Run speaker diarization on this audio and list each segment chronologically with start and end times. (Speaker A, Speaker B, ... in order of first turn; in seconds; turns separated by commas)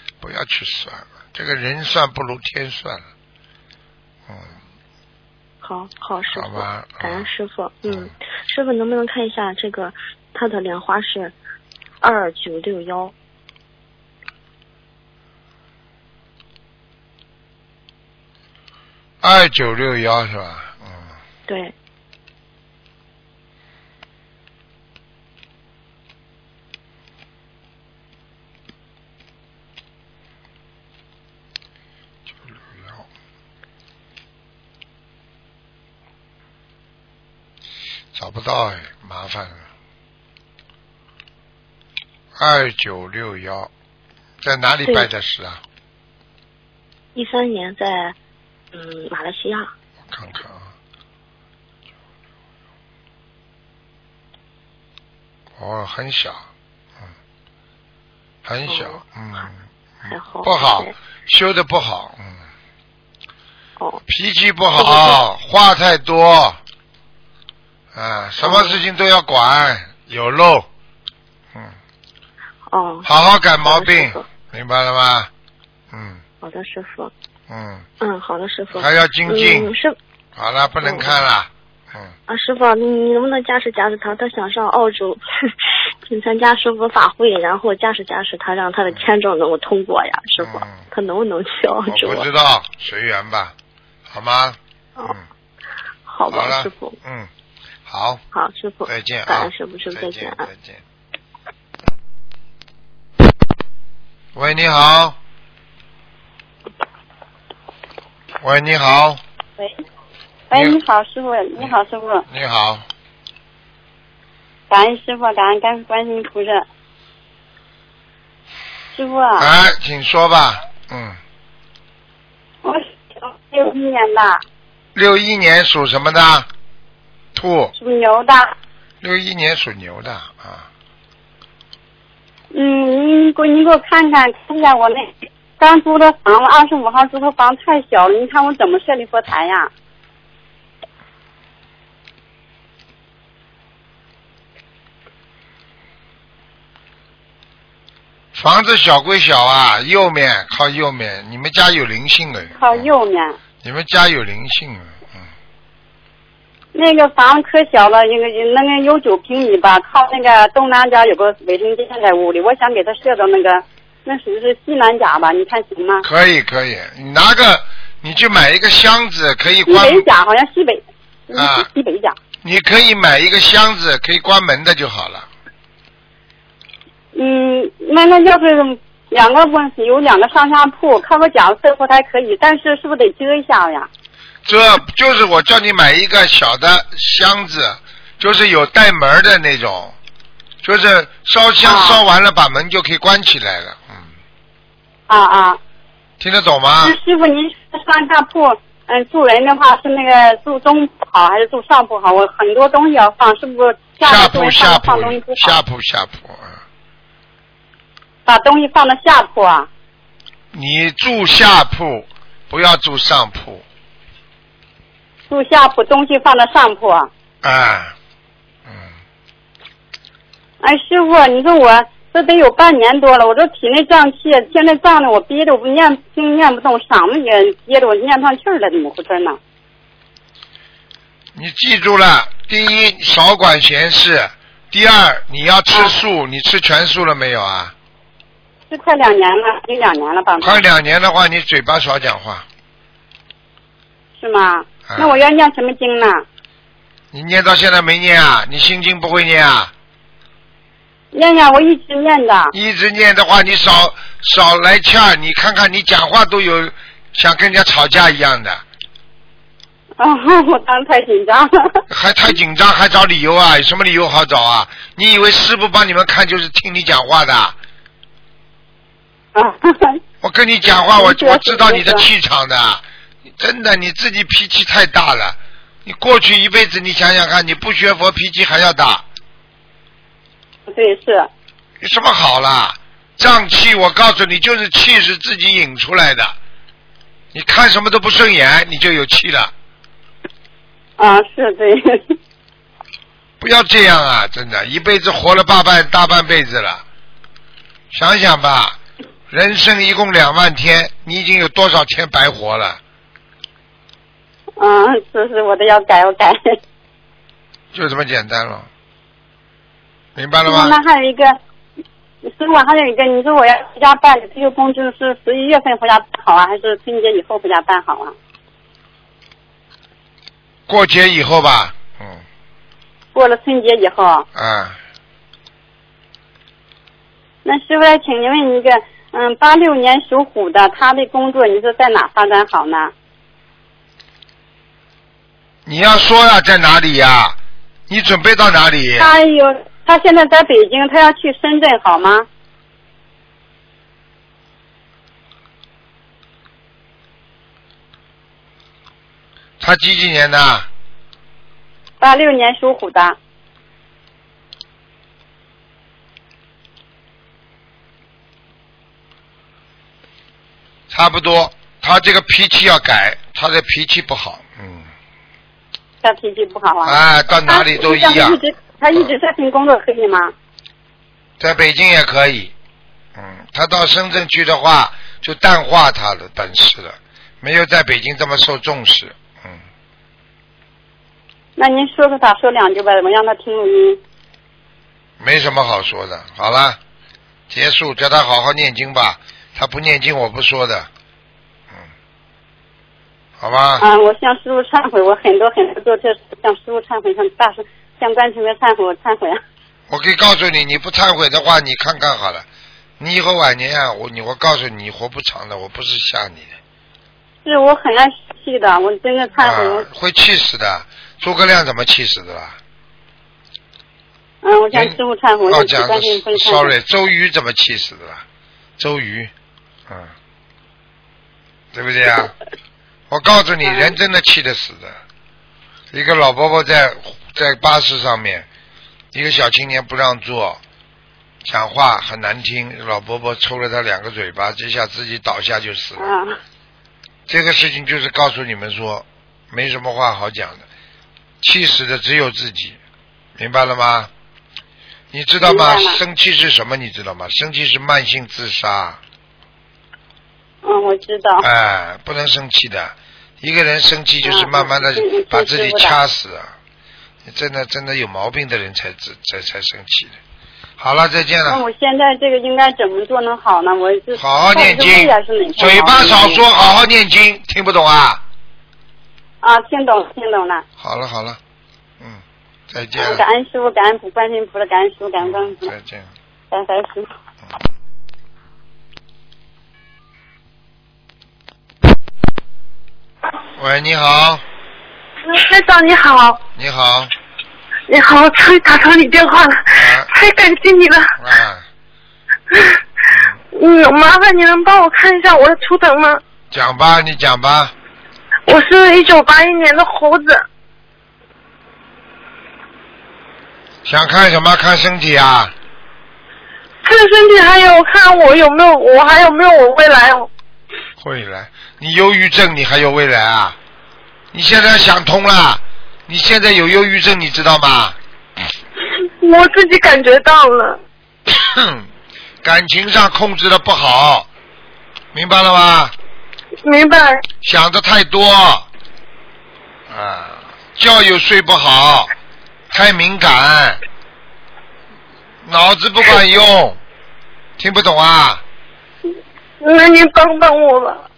Speaker A: 0.2-3.1, Speaker A: 4.3-4.6, Speaker B: 5.6-11.3, Speaker A: 6.3-7.3, Speaker A: 7.9-8.1, Speaker B: 12.0-13.1, Speaker A: 19.2-21.1, Speaker B: 21.5-21.7, Speaker A: 32.3-33.1, Speaker A: 38.1-39.7, Speaker A: 42.4-43.7, Speaker A: 44.4-45.6, Speaker B: 44.8-45.1, Speaker B: 47.1-48.2, Speaker B: 48.7-49.7, Speaker A: 50.1-50.7, Speaker A: 55.6-56.4, Speaker A: 58.5-62.4, Speaker B: 58.7-59.0, Speaker B: 60.1-61.0, Speaker A: 64.1-66.6, Speaker B: 64.8-65.2, Speaker A: 67.9-70.7, Speaker B: 68.4-68.8, Speaker B: 72.7-73.1, Speaker A: 73.0-75.3, Speaker B: 73.7-74.3, Speaker A: 75.9-76.2, Speaker B: 76.4-77.1, Speaker A: 77.5-77.9, Speaker B: 78.0-80.0, Speaker A: 78.7-79.7, Speaker A: 80.3-82.1, Speaker B: 80.8-81.2, Speaker B: 82.3-85.5, Speaker B: 86.0-92.3, Speaker A: 90.4-90.9, Speaker A: 91.9-93.5, Speaker A: 94.1-95.2, Speaker B: 96.1-97.0, Speaker A: 96.3-97.3, Speaker A: 97.9-98.2, Speaker B: 98.3-100.5, Speaker A: 98.9-100.8, Speaker A: 104.3-105.2, Speaker A: 108.4-109.2, Speaker C: 110.5-112.2, Speaker A: 110.5-110.8, Speaker A: 112.3-112.9, Speaker C: 114.7-116.7, Speaker C: 118.9-119.5, Speaker A: 119.4-121.2, Speaker C: 122.6-124.4, Speaker A: 125.0-126.5, Speaker A: 127.3-127.7, Speaker C: 127.8-128.5, Speaker A: 129.0-130.7, Speaker C: 132.5-139.7, Speaker A: 148.3-152.9, Speaker C: 152.6-153.4, Speaker A: 153.6-155.0, Speaker C: 156.7-166.1, Speaker A: 166.0-170.1, Speaker C: 169.7-172.2, Speaker A: 171.4-171.7, Speaker A: 172.4-175.3, Speaker C: 177.1-183.9, Speaker A: 184.4-189.9, Speaker A: 190.6-194.1, Speaker C: 191.6-192.0, Speaker C: 195.1-195.6, Speaker A: 196.2-197.0, Speaker C: 196.8-205.6, Speaker A: 204.0-206.6, Speaker C: 208.3-209.7, Speaker A: 210.5-213.6, Speaker C: 215.3-217.1, Speaker A: 217.4-217.9, Speaker C: 220.6-229.4, Speaker A: 231.3-237.7, Speaker C: 235.7-236.0, Speaker C: 238.7-240.6, Speaker A: 240.4-242.5, Speaker C: 244.2-246.2, Speaker A: 244.9-245.2, Speaker A: 247.1-249.7, Speaker C: 251.1-252.5, Speaker A: 252.5-258.6, Speaker C: 260.0-261.9, Speaker A: 261.9-267.6, Speaker C: 269.4-270.0, Speaker A: 270.2-272.8, Speaker C: 270.9-272.1, Speaker A: 273.4-279.1, Speaker C: 280.7-281.3, Speaker A: 281.8-286.4, Speaker A: 287.3-289.5, Speaker C: 291.0-292.1, Speaker A: 293.4-296.8, Speaker A: 297.9-298.8, Speaker A: 299.3-302.8, Speaker C: 304.6-306.6, Speaker A: 307.7-308.7, Speaker A: 310.2-310.8, Speaker C: 310.5-311.4, Speaker C: 312.2-318.1, Speaker A: 320.7-322.2, Speaker C: 323.1-324.3, Speaker A: 324.4-324.8, Speaker C: 327.4-332.9, Speaker A: 335.7-337.4, Speaker A: 337.9-339.1, Speaker C: 339.0-342.3, Speaker A: 349.6-350.7, Speaker C: 352.0-353.2, Speaker A: 360.9-364.9, Speaker C: 366.0-370.3, Speaker A: 366.9-368.4, Speaker A: 371.4-372.5, Speaker A: 373.2-379.6, Speaker C: 381.6-384.0, Speaker A: 385.2-386.8, Speaker A: 387.5-390.9, Speaker A: 393.4-393.9, Speaker C: 393.8-399.4, Speaker A: 399.9-402.5, Speaker A: 403.0-406.6, Speaker C: 407.4-409.9, Speaker A: 409.4-412.6, Speaker C: 414.4-416.7, Speaker A: 414.7-418.2, Speaker A: 418.8-419.3, Speaker A: 421.7-422.3, Speaker A: 423.1-425.0, Speaker A: 425.9-428.5, Speaker A: 429.1-430.6, Speaker A: 431.4-436.1, Speaker C: 436.0-436.4, Speaker A: 437.3-440.6, Speaker A: 441.4-442.8, Speaker A: 443.4-444.1, Speaker A: 445.1-449.0, Speaker C: 445.4-446.0, Speaker C: 450.6-451.5, Speaker A: 451.4-456.5, Speaker C: 454.2-456.0, Speaker A: 457.2-460.2, Speaker A: 460.8-461.6, Speaker C: 461.5-466.4, Speaker A: 464.2-468.2, Speaker C: 469.4-470.6, Speaker A: 470.8-471.4, Speaker A: 472.0-473.2, Speaker C: 473.0-475.7, Speaker A: 475.2-476.1, Speaker C: 476.5-477.1, Speaker A: 483.6-484.4, Speaker D: 485.2-486.4, Speaker A: 486.6-487.1, Speaker D: 487.9-491.2, Speaker A: 489.7-490.1, Speaker A: 491.2-491.6, Speaker D: 492.5-492.8, Speaker A: 493.1-493.4, Speaker D: 493.5-496.2, Speaker A: 496.5-497.7, Speaker D: 498.5-500.4, Speaker A: 503.9-505.5, Speaker D: 506.8-510.3, Speaker A: 511.0-513.6, Speaker A: 514.3-518.0, Speaker D: 519.2-520.8, Speaker A: 521.3-521.9, Speaker A: 522.4-524.3, Speaker A: 525.1-525.9, Speaker D: 526.6-527.2, Speaker A: 527.4-528.7, Speaker A: 529.9-532.1, Speaker A: 532.7-533.8, Speaker A: 535.5-536.8, Speaker A: 537.6-538.4, Speaker D: 539.6-541.0